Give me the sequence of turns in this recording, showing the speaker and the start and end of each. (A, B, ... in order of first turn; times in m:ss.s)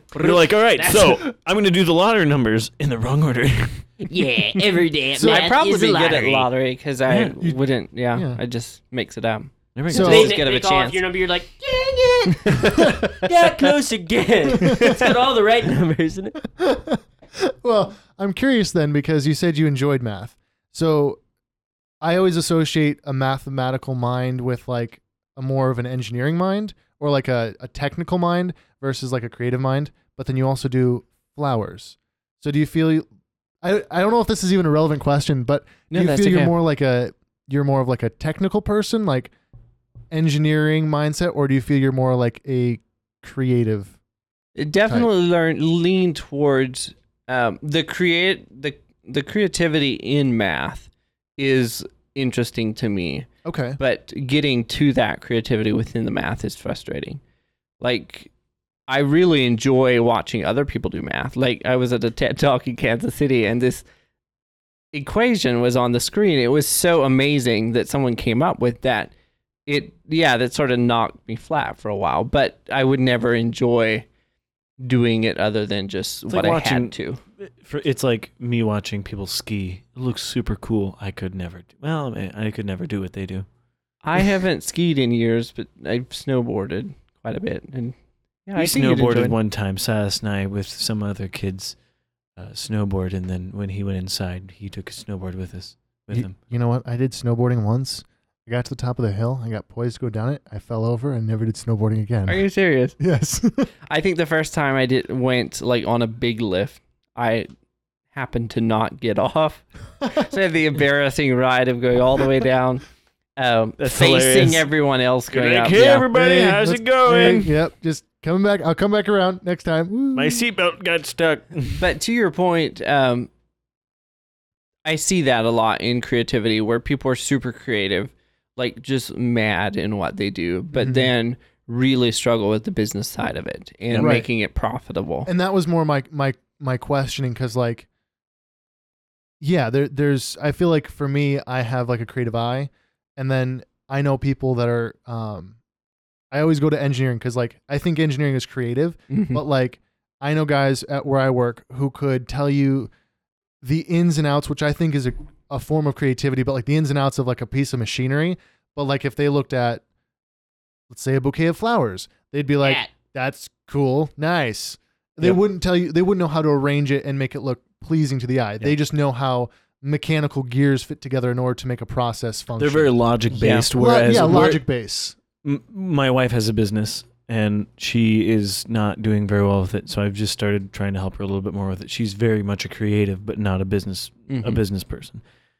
0:00.1-0:01.2 A
0:00.1-0:03.8 B
0:04.0-0:06.5 A
0:05.2-0:05.4 C
0:05.2-0:11.0 D
0:07.0-0:07.4 B
0:08.1-0:08.4 C
0:09.7-0:10.4 B
0:09.9-0:10.4 C
0:09.9-0:16.4 A
0:12.3-0:12.8 D
0:12.6-0:13.2 C
0:14.5-0:15.1 C
0:16.6-0:21.2 C
0:22.0-0:33.0 C
0:33.6-0:39.3 C
0:35.9-0:36.5 D
0:40.1-0:43.9 C
0:44.6-0:57.2 D
0:53.4-0:53.8 C
0:57.8-0:58.3 D
0:58.9-1:03.8 D
1:04.9-1:09.1 D
1:09.7-1:14.0 D
1:14.8-1:17.2 D
1:16.3-1:23.4 B
1:24.0-1:29.4 D
1:28.6-1:31.8 B
1:32.4-1:36.3 B
1:36.1-1:42.4 C
1:42.3-1:43.0 D
1:43.0-1:43.7 C
1:43.9-1:47.5 D
1:48.1-1:52.8 D
1:53.4-1:56.1 D
1:53.8-1:54.6 B
1:55.3-1:57.5 B
1:56.1-2:00.4 C
2:00.1-2:01.8 B
2:01.8-2:03.3 D
2:04.8-2:15.3 D
2:10.8-2:11.1 C
2:13.9-2:14.3 C
2:15.2-2:17.8 C
2:19.4-2:25.5 C
2:26.3-2:32.9 C
2:29.1-2:29.4 D
2:33.6-2:39.8 C
2:40.9-2:52.9 C
2:42.6-2:42.9 A
2:52.6-2:54.6 B
2:53.3-2:53.7 D
2:53.7-2:55.2 C
2:55.4-3:05.2 B
3:04.3-3:04.6 D